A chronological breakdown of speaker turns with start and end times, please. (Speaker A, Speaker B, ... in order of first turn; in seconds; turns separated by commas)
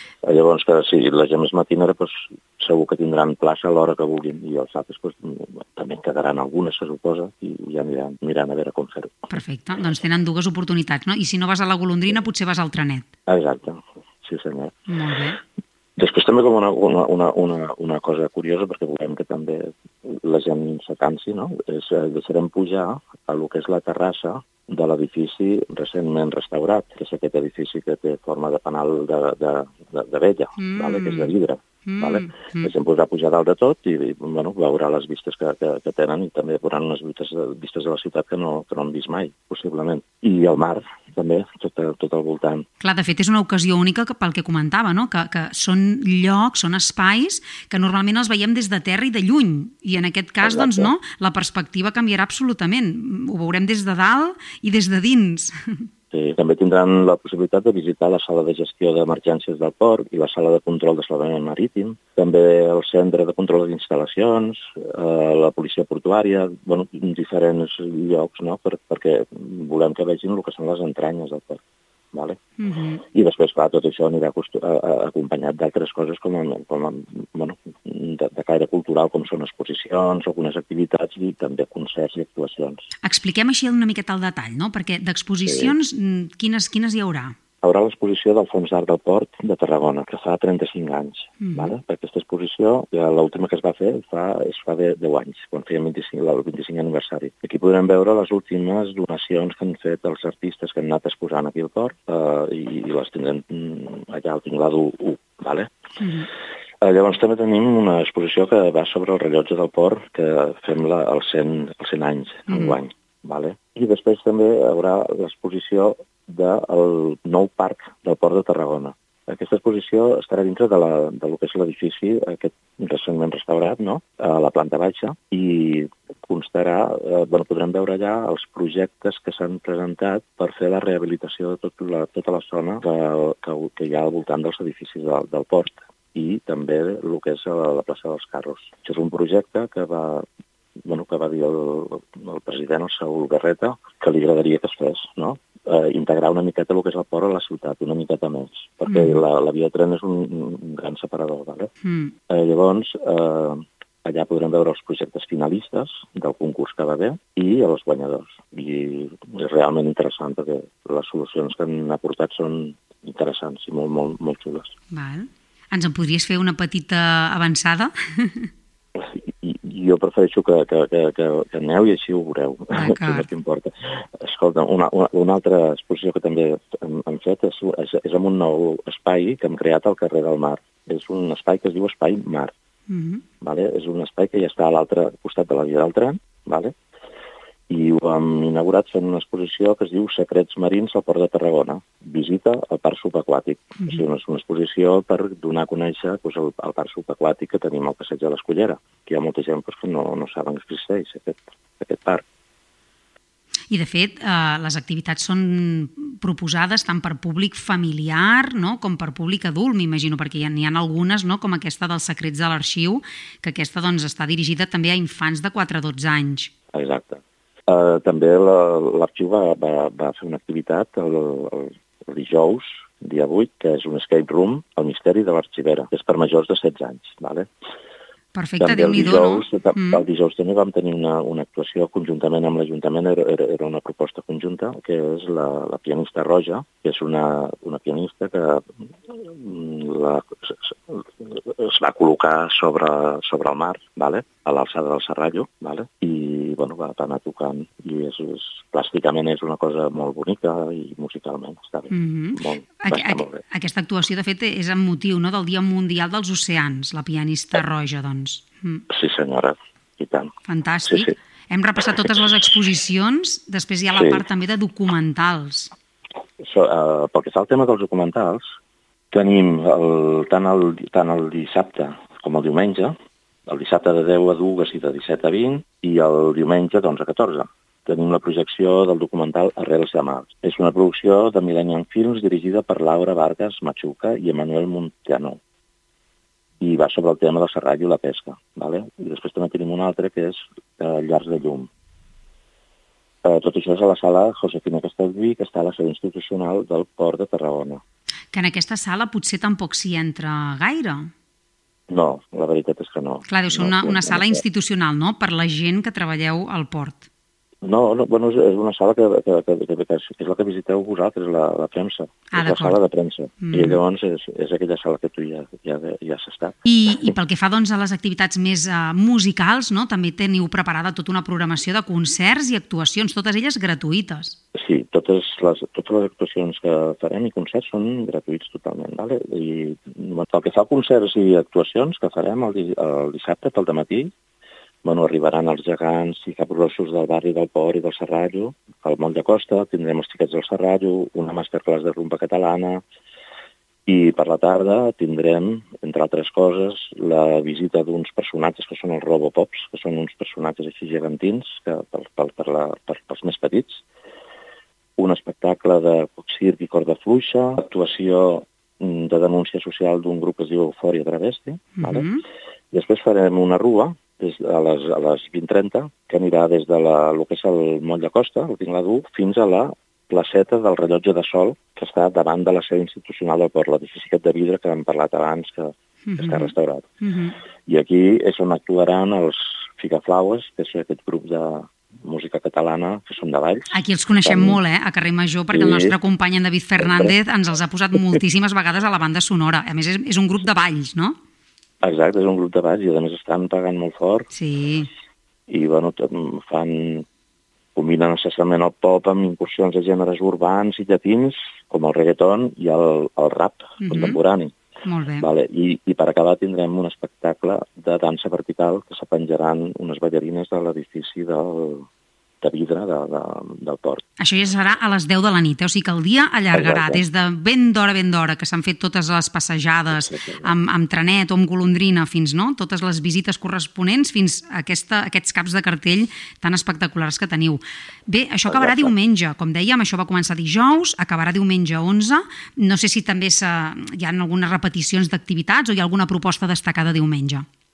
Speaker A: 0.2-9.3, Speaker B: 9.3-13.1, Speaker A: 13.3-14.8, Speaker B: 14.9-15.4, Speaker A: 16.0-42.6, Speaker B: 30.6-31.3, Speaker B: 31.9-32.7, Speaker B: 42.8-55.9, Speaker A: 50.4-50.9, Speaker A: 56.1-71.6, Speaker A: 72.1-72.4, Speaker B: 72.6-73.0, Speaker A: 73.1-82.8, Speaker B: 83.0-87.3, Speaker A: 85.5-85.8, Speaker A: 87.6-105.7, Speaker B: 91.4-91.8, Speaker B: 106.0-106.3, Speaker A: 106.8-140.3, Speaker B: 112.5-112.8, Speaker A: 140.9-151.7, Speaker B: 148.9-149.2, Speaker B: 151.8-152.1, Speaker A: 152.3-164.7, Speaker B: 164.9-168.5, Speaker A: 169.0-182.5, Speaker B: 172.8-173.3, Speaker B: 182.9-183.2, Speaker A: 183.4-186.7, Speaker A: 187.7-202.2, Speaker B: 203.7-216.5, Speaker A: 216.7-227.5, Speaker B: 228.3-230.0, Speaker A: 228.6-253.4, Speaker B: 251.9-258.8, Speaker A: 258.9-260.3, Speaker B: 260.5-265.7, Speaker A: 260.9-261.1, Speaker A: 263.9-264.3, Speaker A: 266.4-268.4, Speaker A: 269.1-272.9, Speaker A: 273.5-285.4, Speaker A: 286.6-291.7, Speaker A: 293.2-297.8, Speaker B: 298.3-301.1, Speaker A: 301.9-304.4, Speaker B: 303.3-307.1, Speaker A: 307.6-317.1, Speaker B: 312.3-312.8, Speaker B: 313.4-313.8, Speaker B: 316.7-324.4, Speaker A: 324.6-334.1, Speaker A: 334.8-342.8, Speaker A: 343.9-353.8, Speaker A: 355.0-362.1, Speaker B: 361.8-362.2, Speaker A: 362.7-376.9, Speaker B: 376.1-377.4, Speaker A: 377.7-384.6, Speaker B: 383.7-391.2, Speaker A: 385.5-386.0, Speaker A: 386.8-387.1, Speaker A: 391.8-394.3, Speaker B: 394.3-394.9, Speaker A: 395.5-397.1, Speaker A: 397.8-404.5, Speaker B: 403.8-404.2, Speaker B: 404.9-405.3, Speaker A: 405.2-411.9, Speaker A: 412.4-414.0, Speaker B: 414.2-437.5, Speaker A: 416.5-417.0, Speaker A: 419.9-420.5, Speaker A: 428.5-428.9